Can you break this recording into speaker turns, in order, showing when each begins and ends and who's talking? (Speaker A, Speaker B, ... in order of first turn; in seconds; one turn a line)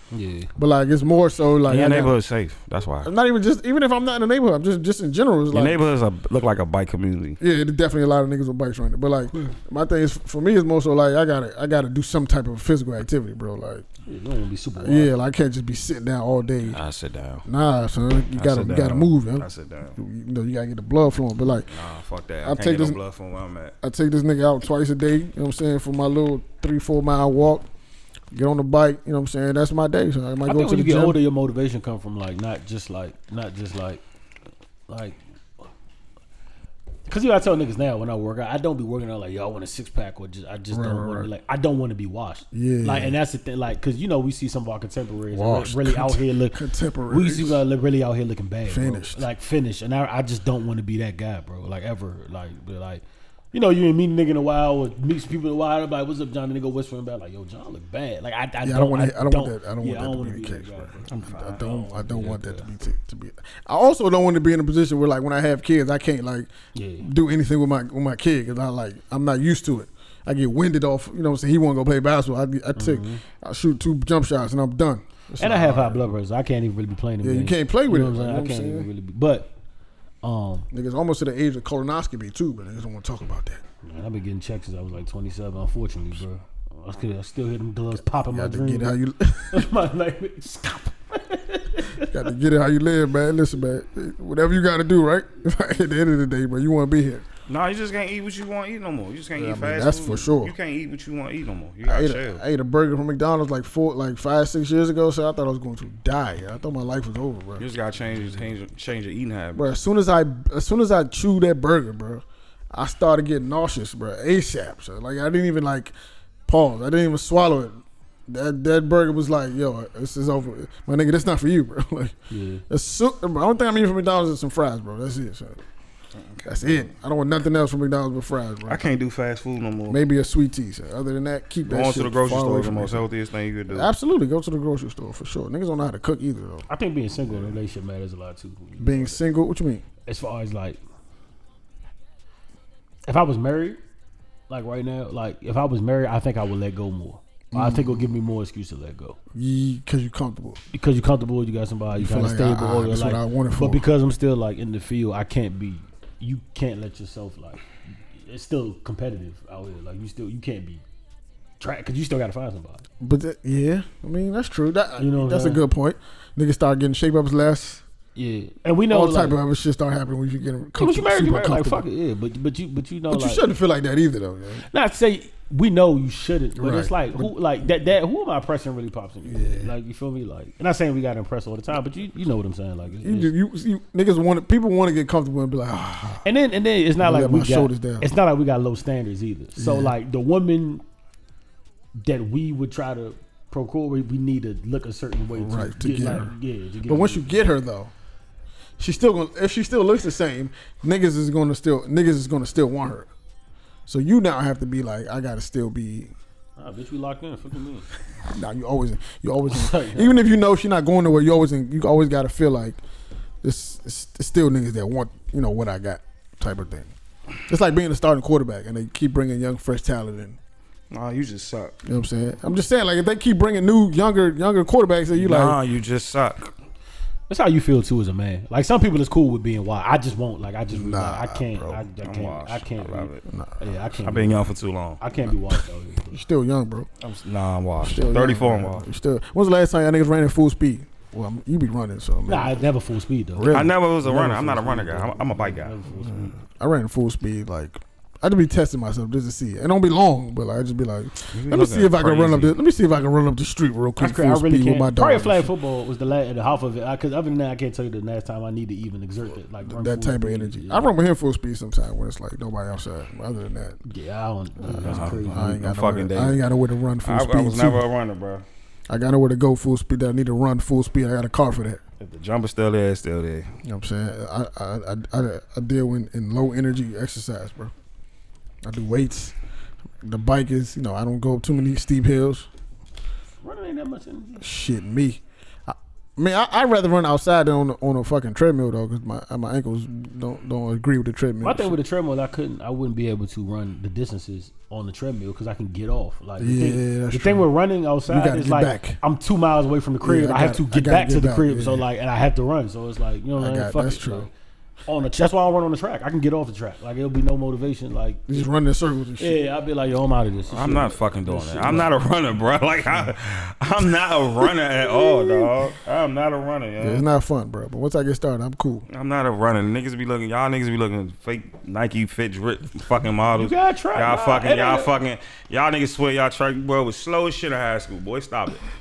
Speaker A: 0.1-0.5
Speaker B: 0.6-2.1
Speaker C: 1.7-3.1
Speaker B: 3.0-5.8
Speaker C: 5.5-7.4
Speaker B: 7.4-13.9
Speaker A: 14.1-15.1
Speaker B: 14.8-16.8
Speaker C: 16.6-17.4
Speaker B: 17.5-21.7
Speaker C: 18.4-20.0
Speaker C: 21.7-23.8
Speaker B: 22.4-23.0
Speaker B: 23.8-27.7
Speaker B: 28.3-31.2
Speaker A: 30.4-34.0
Speaker A: 34.9-35.2
Speaker A: 37.1-62.7
Speaker B: 40.7-41.3
Speaker B: 42.5-43.2
Speaker B: 45.3-47.6
Speaker B: 48.7-49.3
Speaker B: 58.6-66.5
Speaker C: 61.1-61.6
Speaker A: 66.8-67.1
Speaker B: 67.0-76.1
Speaker A: 72.8-73.2
Speaker A: 75.4-79.5
Speaker B: 77.2-78.9
Speaker A: 80.2-80.7
Speaker B: 80.7-83.6
Speaker A: 83.8-88.9
Speaker B: 88.3-89.7
Speaker A: 89.5-92.3
Speaker B: 92.0-97.2
Speaker C: 97.5-102.4
Speaker B: 99.3-100.5
Speaker B: 101.8-107.7
Speaker C: 107.6-109.7
Speaker B: 109.5-115.9
Speaker B: 116.5-122.2
Speaker A: 122.3-122.7
Speaker B: 122.7-125.6
Speaker C: 126.2-126.9
Speaker B: 126.5-128.8
Speaker C: 128.7-130.0
Speaker B: 129.9-133.1
Speaker C: 131.7-133.9
Speaker B: 133.7-136.7
Speaker A: 136.7-139.2
Speaker B: 138.8-139.8
Speaker A: 140.1-140.8
Speaker A: 143.1-143.8
Speaker A: 144.5-149.2
Speaker B: 147.5-148.1
Speaker B: 149.3-150.6
Speaker A: 150.7-157.6
Speaker B: 151.9-153.9
Speaker A: 158.2-160.8
Speaker A: 161.6-162.8
Speaker B: 163.0-167.8
Speaker A: 165.0-165.6
Speaker A: 168.2-169.4
Speaker B: 168.9-171.9
Speaker A: 170.8-173.4
Speaker B: 173.1-174.7
Speaker A: 174.7-183.3
Speaker B: 176.6-177.3
Speaker B: 179.3-179.7
Speaker B: 183.0-186.3
Speaker A: 186.2-190.8
Speaker B: 187.0-188.1
Speaker B: 189.6-189.9
Speaker A: 192.0-197.4
Speaker B: 195.4-196.3
Speaker B: 196.9-197.9
Speaker B: 198.8-203.1
Speaker B: 203.9-206.1
Speaker A: 206.6-207.9
Speaker B: 208.3-212.8
Speaker A: 209.5-210.2
Speaker B: 213.4-216.9
Speaker B: 217.5-220.4
Speaker C: 220.9-221.8
Speaker B: 221.8-225.6
Speaker C: 225.1-226.5
Speaker A: 227.3-234.5
Speaker B: 230.7-231.9
Speaker C: 232.0-233.2
Speaker B: 233.3-233.8
Speaker C: 234.0-235.0
Speaker A: 235.0-236.2
Speaker B: 236.1-236.9
Speaker C: 237.0-238.8
Speaker B: 237.8-242.6
Speaker A: 242.3-246.3
Speaker B: 243.3-243.8
Speaker C: 243.5-246.2
Speaker B: 246.1-255.5
Speaker C: 251.3-252.6
Speaker A: 254.0-260.9
Speaker B: 259.6-263.8
Speaker A: 263.9-265.5
Speaker B: 264.6-267.8
Speaker C: 264.8-266.4
Speaker C: 267.0-268.4
Speaker B: 268.9-271.8
Speaker C: 272.0-273.5
Speaker B: 273.6-277.7
Speaker B: 278.6-279.4
Speaker B: 280.0-282.5
Speaker A: 283.4-284.5
Speaker B: 284.4-291.8
Speaker A: 291.4-304.3
Speaker B: 296.4-297.5
Speaker B: 298.1-299.0
Speaker B: 300.0-301.9
Speaker B: 303.4-304.3
Speaker A: 304.9-308.4
Speaker B: 308.3-309.4
Speaker A: 309.2-311.9
Speaker C: 310.5-317.0
Speaker A: 314.9-315.5
Speaker B: 316.8-318.9
Speaker C: 318.9-328.6
Speaker A: 323.4-324.9